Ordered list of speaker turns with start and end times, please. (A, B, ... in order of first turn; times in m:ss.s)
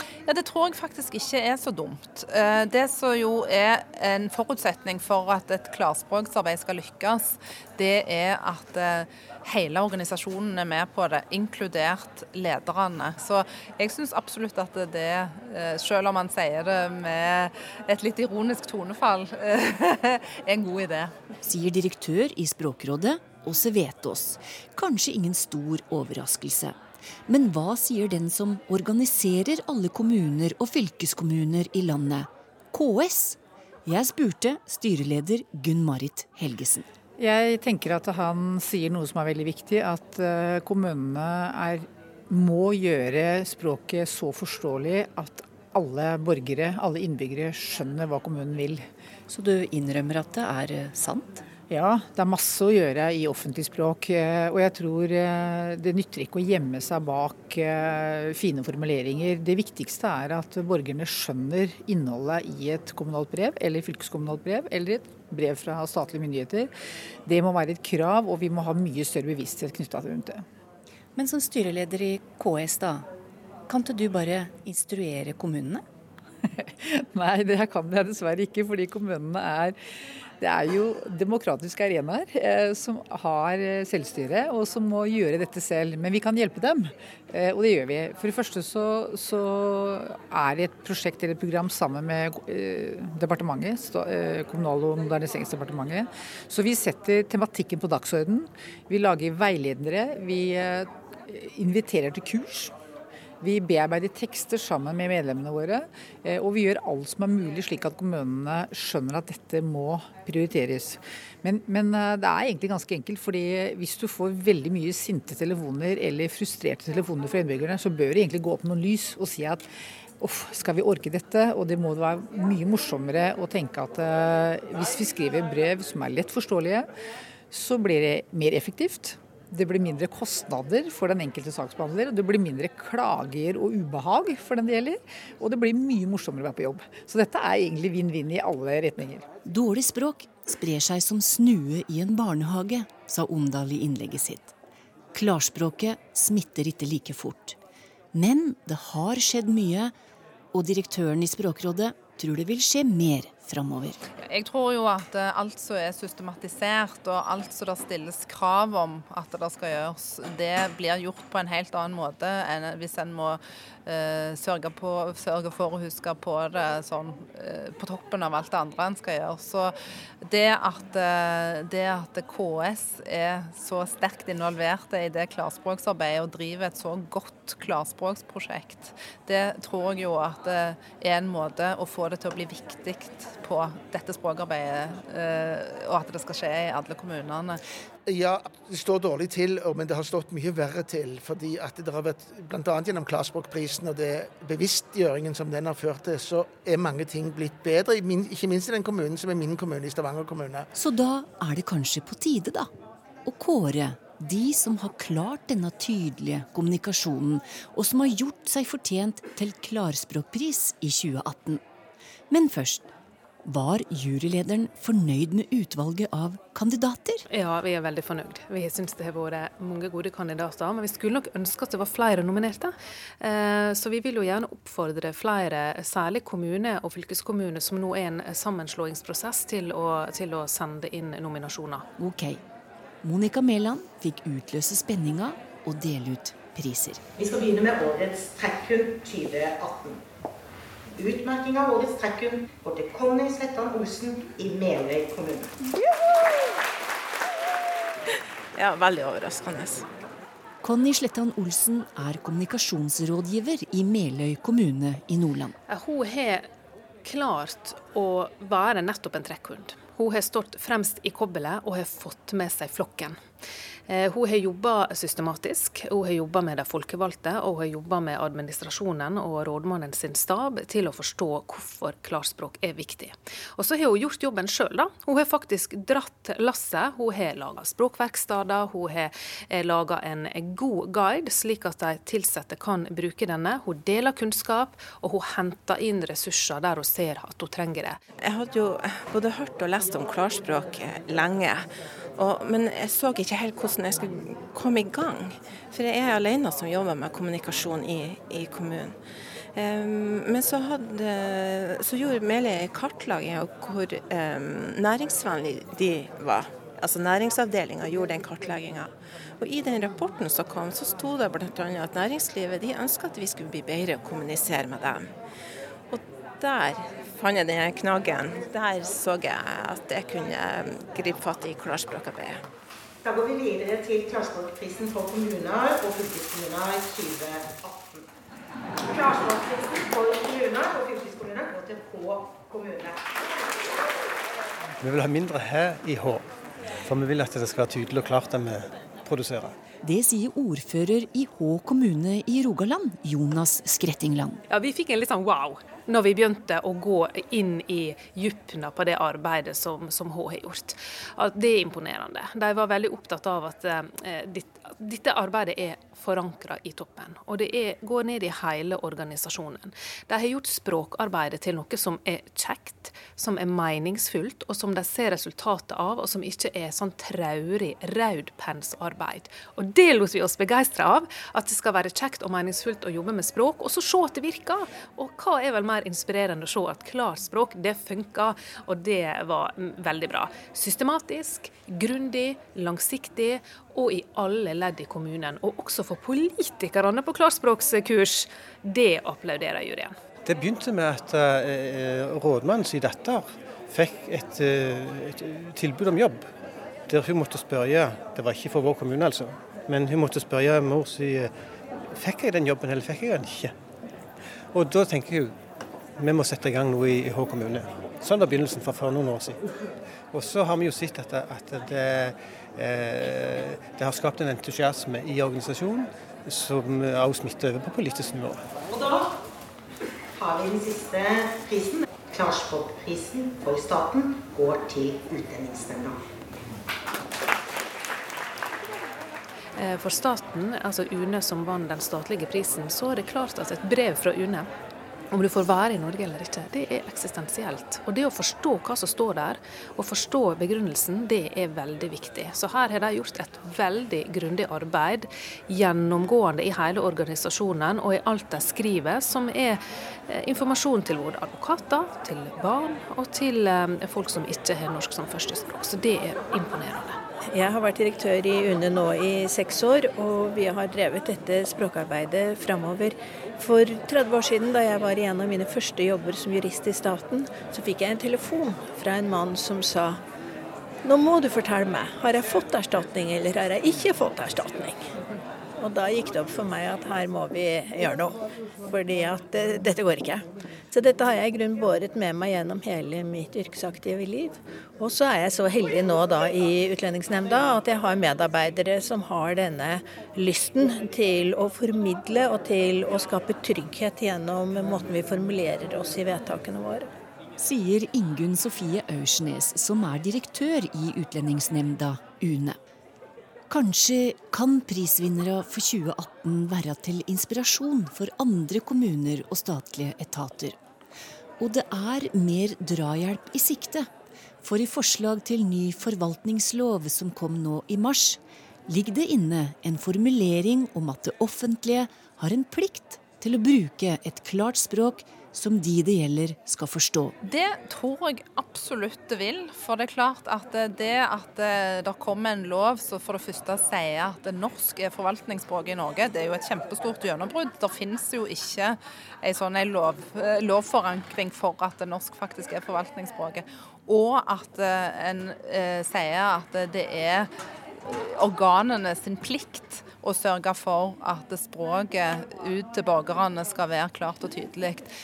0:00.2-0:21.1 A
0:21.4-0:36.9 B
0:37.2-0:48.9 C
0:49.3-0:51.4 B
0:51.7-1:06.7 C
1:07.2-1:10.4 C
1:11.2-1:13.0 B
1:13.7-1:15.8 B
1:16.6-1:19.8 C
1:20.4-1:42.7 C
1:43.4-1:59.7 C
2:00.2-2:06.9 C
2:07.5-2:19.2 C
2:19.4-2:24.5 B
2:25.1-2:27.6 B
2:28.1-2:29.9 B
2:30.5-2:34.0 B
2:34.2-3:07.6 A
3:08.0-3:20.7 D
3:20.7-3:22.7 B
3:23.2-3:31.6 B
3:32.3-3:32.9 B
3:33.4-3:37.2 B
3:37.3-3:51.9 E
3:52.0-3:52.4 B
3:53.0-3:57.0 B
3:57.2-4:00.0 F
4:01.0-4:05.5 F
4:08.5-4:09.9 G
4:10.6-4:15.6 B
4:15.7-4:16.5 E
4:17.0-4:23.2 E
4:23.9-4:48.0 E
4:48.2-4:59.0 G
4:59.5-5:15.1 G
5:15.9-5:22.4 G
5:23.0-5:28.0 F
5:28.8-5:33.5 F
5:34.8-5:36.2 H
5:36.8-5:39.5 H
5:39.8-5:44.4 B
5:44.5-6:29.9 E
6:30.2-6:36.2 H
6:36.9-6:41.3 H
6:41.9-6:43.5 H
6:44.5-6:45.3 H
6:46.0-6:49.5 H
6:50.1-6:58.4 H
6:58.7-6:59.1 F
7:00.2-7:06.0 F
7:09.6-7:14.5 E
7:15.1-7:37.0 E
7:37.3-7:50.0 I
7:50.8-7:54.9 I
7:55.6-8:16.9 I
8:17.4-8:22.6 B
8:23.5-8:30.6 B
8:31.4-8:33.9 B
8:34.4-8:47.1 B
8:47.2-9:14.9 A